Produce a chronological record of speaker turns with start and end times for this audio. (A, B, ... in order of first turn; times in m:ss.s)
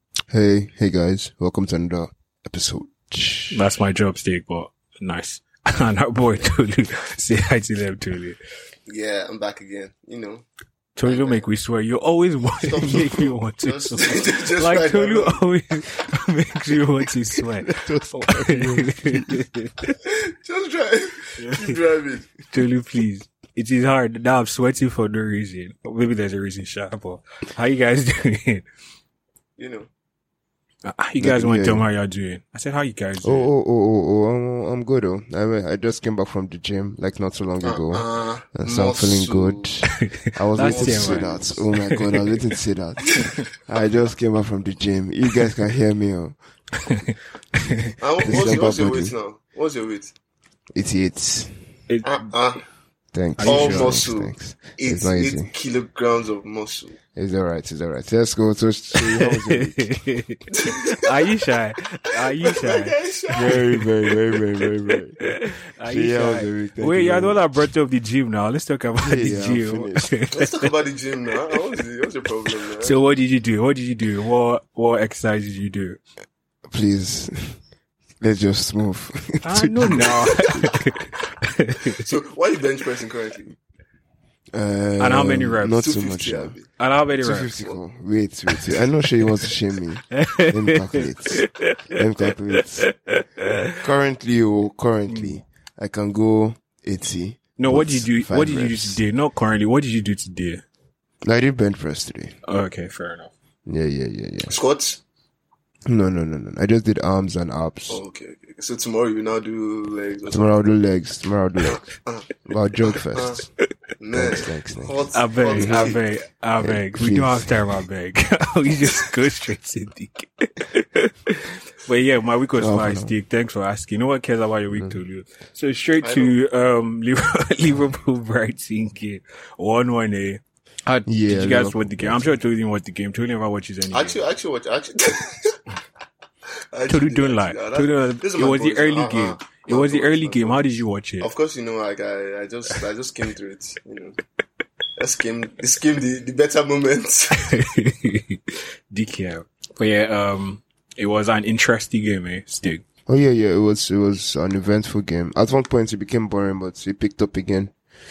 0:00.3-0:03.6 A
0:03.5-0:08.4 B
0:08.8-0:10.4 C
0:11.0-0:19.9 B
0:11.0-0:11.4 C
0:12.6-0:15.4 C
0:17.6-0:19.4 A
0:20.0-0:22.3 C
0:21.4-0:21.8 B
0:22.5-0:28.6 B
0:29.6-0:29.9 C
0:30.8-0:33.5 B
0:31.2-0:31.8 A
0:33.2-0:46.4 A
0:37.6-0:39.7 C
0:39.9-0:42.4 B
0:40.6-0:41.7 C
0:46.8-0:47.9 B
0:47.7-0:49.1 A
0:48.0-0:50.1 C
0:50.7-0:51.6 A
0:51.9-0:52.2 B
0:52.0-0:52.6 C
0:53.1-0:55.5 A
0:53.4-0:54.0 B
0:53.4-0:57.0 C
0:57.1-0:59.9 A
0:59.0-1:03.8 B
1:00.5-1:01.1 C
1:02.4-1:03.7 C
1:03.3-1:05.2 A
1:05.2-1:10.7 B
1:05.8-1:07.6 A
1:09.0-1:10.2 A
1:10.3-1:13.0 C
1:12.8-1:16.0 B
1:16.7-1:17.6 A
1:18.2-1:20.8 A
1:19.4-1:22.0 B
1:22.0-1:23.6 C
1:24.5-1:26.6 A
1:25.0-1:25.8 B
1:25.7-1:26.7 C
1:26.8-1:27.5 B
1:27.2-1:32.9 A
1:30.1-1:33.8 B
1:33.8-1:39.0 A
1:35.1-1:35.4 B
1:37.6-1:40.6 B
1:41.2-1:42.3 A
1:42.4-1:43.3 B
1:43.7-1:44.6 A
1:44.5-1:45.0 C
1:45.8-1:48.0 A
1:47.9-1:50.6 C
1:50.3-1:51.8 A
1:51.6-1:53.4 C
1:52.4-1:53.5 A
1:54.0-1:56.0 C
1:54.1-1:56.0 A
1:55.1-2:14.2 B
1:56.6-1:57.8 A
2:02.6-2:03.1 A
2:04.7-2:05.0 A
2:06.0-2:06.4 C
2:11.0-2:12.4 A
2:13.9-2:15.6 C
2:16.7-2:24.2 C
2:16.9-2:21.3 B
2:25.0-2:27.5 C
2:27.3-2:32.8 B
2:33.1-2:37.7 A